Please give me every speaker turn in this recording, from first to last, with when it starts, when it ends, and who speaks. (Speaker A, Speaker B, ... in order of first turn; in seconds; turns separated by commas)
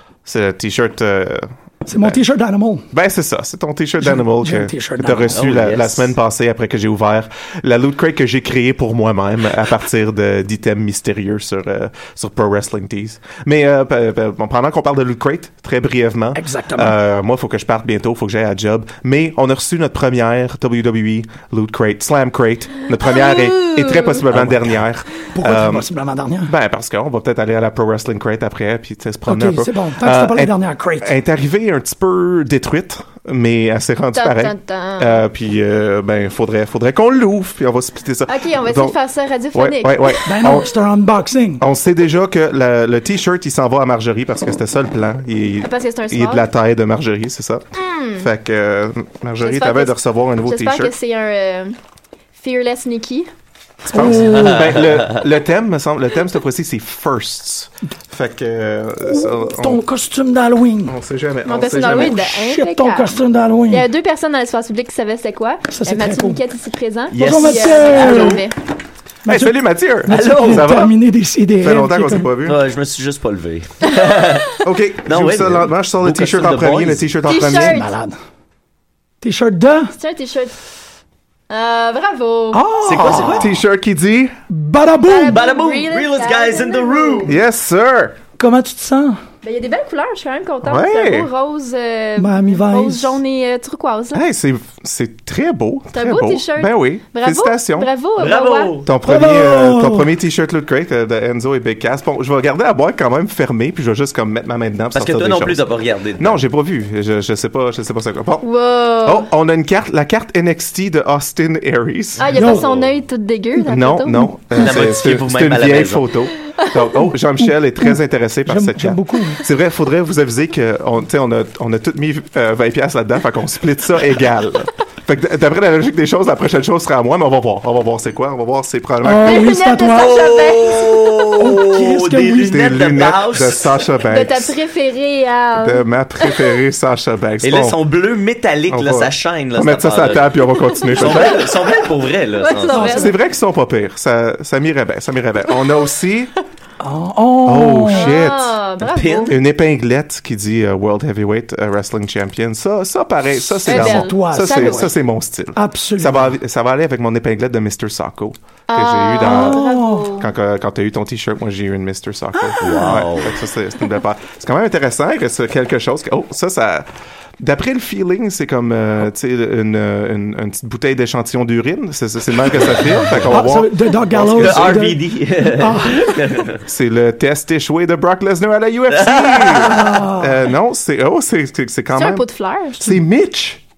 Speaker A: 0.2-2.2, Speaker B: 1.9-2.9, Speaker A: 2.9-25.9, Speaker B: 4.0-5.4, Speaker C: 5.3-6.1, Speaker B: 16.3-17.0, Speaker D: 23.0-24.2, Speaker B: 24.3-24.8, Speaker B: 25.3-26.5, Speaker A: 26.4-39.0, Speaker B: 29.2-31.1, Speaker D: 34.1-35.2, Speaker D: 38.3-40.5, Speaker A: 39.5-40.7, Speaker B: 40.2-41.6, Speaker A: 41.6-50.9, Speaker D: 45.6-46.5, Speaker D: 47.7-48.3, Speaker D: 49.4-51.8, Speaker D: 52.4-53.3, Speaker A: 53.8-59.8, Speaker B: 53.9-54.9, Speaker C: 54.1-55.2, Speaker B: 59.0-61.0, Speaker A: 60.9-62.2, Speaker D: 61.4-63.1, Speaker B: 61.8-63.9, Speaker D: 63.7-68.6, Speaker B: 65.7-66.4, Speaker C: 67.1-68.4, Speaker B: 67.2-68.4, Speaker B: 69.2-72.3, Speaker A: 69.2-70.9, Speaker C: 70.1-70.7, Speaker A: 71.6-72.6, Speaker C: 72.5-74.5, Speaker D: 73.9-74.3, Speaker A: 74.6-77.8, Speaker C: 75.0-77.1, Speaker D: 77.2-77.9, Speaker B: 77.5-78.2, Speaker B: 79.2-79.9, Speaker D: 79.9-80.5, Speaker D: 81.5-82.6, Speaker B: 82.5-83.6, Speaker C: 82.8-83.5, Speaker A: 83.0-84.4, Speaker B: 84.5-85.5, Speaker D: 85.0-87.4, Speaker C: 85.3-87.4, Speaker A: 87.3-88.2, Speaker B: 88.4-89.2, Speaker D: 89.4-94.2, Speaker A: 90.6-91.3, Speaker B: 92.2-93.2, Speaker A: 94.1-97.9, Speaker D: 95.9-98.8, Speaker C: 98.2-98.9, Speaker A: 98.8-105.6, Speaker B: 99.0-100.1, Speaker C: 104.9-106.4, Speaker A: 106.2-108.4, Speaker D: 108.4-109.3, Speaker A: 109.0-112.3, Speaker D: 112.2-114.3, Speaker C: 112.3-112.9, Speaker B: 112.3-112.7, Speaker A: 113.6-129.5, Speaker C: 114.5-116.0, Speaker B: 117.4-119.4, Speaker B: 129.0-130.2, Speaker D: 129.2-131.5, Speaker C: 129.9-133.8, Speaker B: 131.4-132.7, Speaker A: 132.4-134.5, Speaker D: 134.0-136.4, Speaker A: 135.6-137.8, Speaker C: 137.4-140.4, Speaker A: 138.7-141.5, Speaker D: 140.8-141.4, Speaker C: 140.9-143.0, Speaker D: 142.4-143.1, Speaker B: 142.7-143.1, Speaker A: 142.8-146.3, Speaker B: 146.8-148.2, Speaker A: 147.4-148.6, Speaker D: 147.9-149.4, Speaker C: 148.9-149.4, Speaker A: 149.2-174.8, Speaker B: 153.6-154.9, Speaker D: 153.6-154.9, Speaker B: 155.5-156.4, Speaker D: 158.7-160.3, Speaker B: 159.2-160.1, Speaker B: 162.4-163.0, Speaker C: 162.6-163.4, Speaker B: 173.2-176.4, Speaker C: 174.2-176.6, Speaker A: 176.6-182.2, Speaker C: 178.9-179.9, Speaker B: 179.6-180.5, Speaker D: 181.9-182.8, Speaker A: 182.8-183.6